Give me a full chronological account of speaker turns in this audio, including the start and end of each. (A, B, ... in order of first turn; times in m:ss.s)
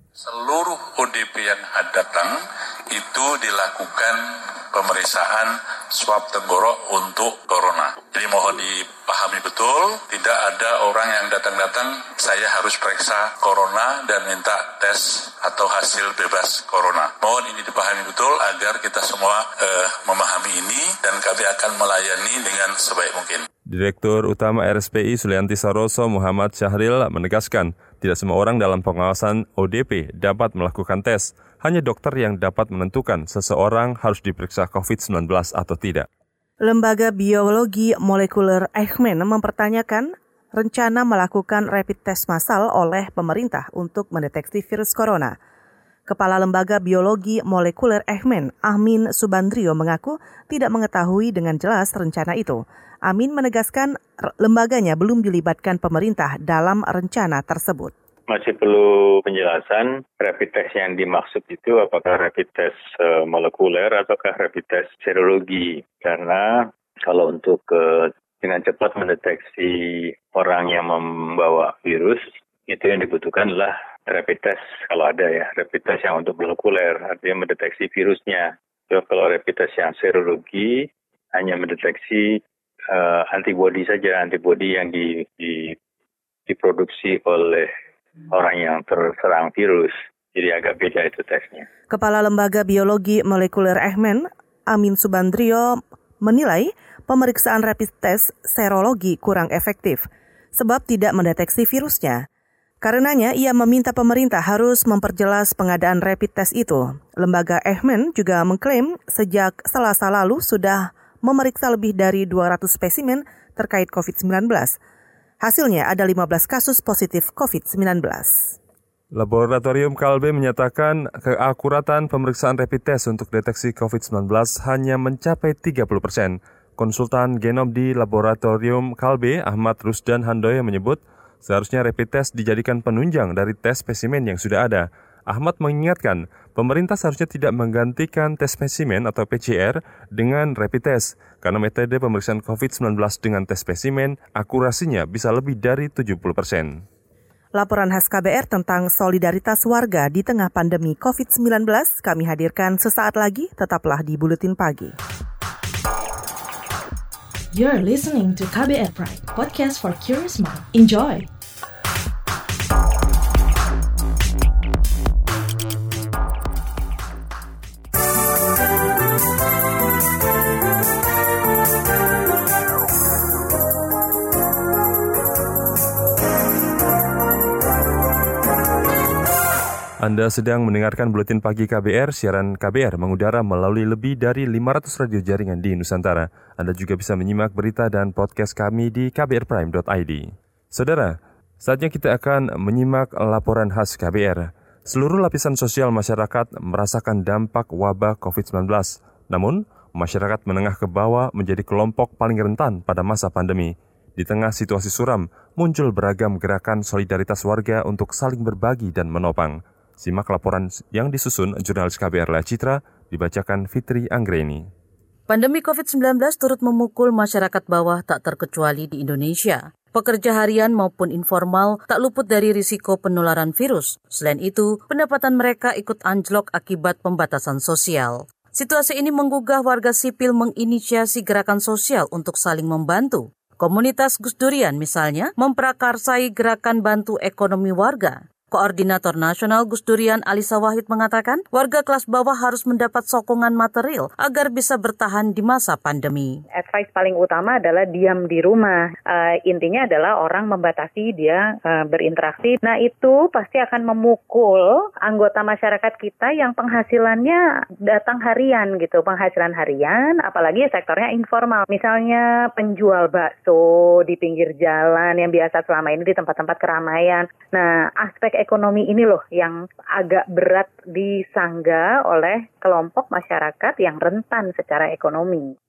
0:00.2-0:23.5 A
0:23.7-0:36.1 B
0:36.6-0:45.4 C
0:46.1-0:57.9 C
0:58.3-1:22.4 D
1:22.9-1:25.8 D
1:26.5-1:27.7 D
1:28.3-1:31.7 D
1:31.9-1:42.2 C
1:42.8-1:54.8 C
1:55.4-1:58.5 C
1:59.1-2:26.8 B
2:27.5-2:34.9 C
2:37.5-2:41.3 E
3:00.0-3:34.7 B
3:35.3-4:06.3 F
4:06.6-4:35.5 G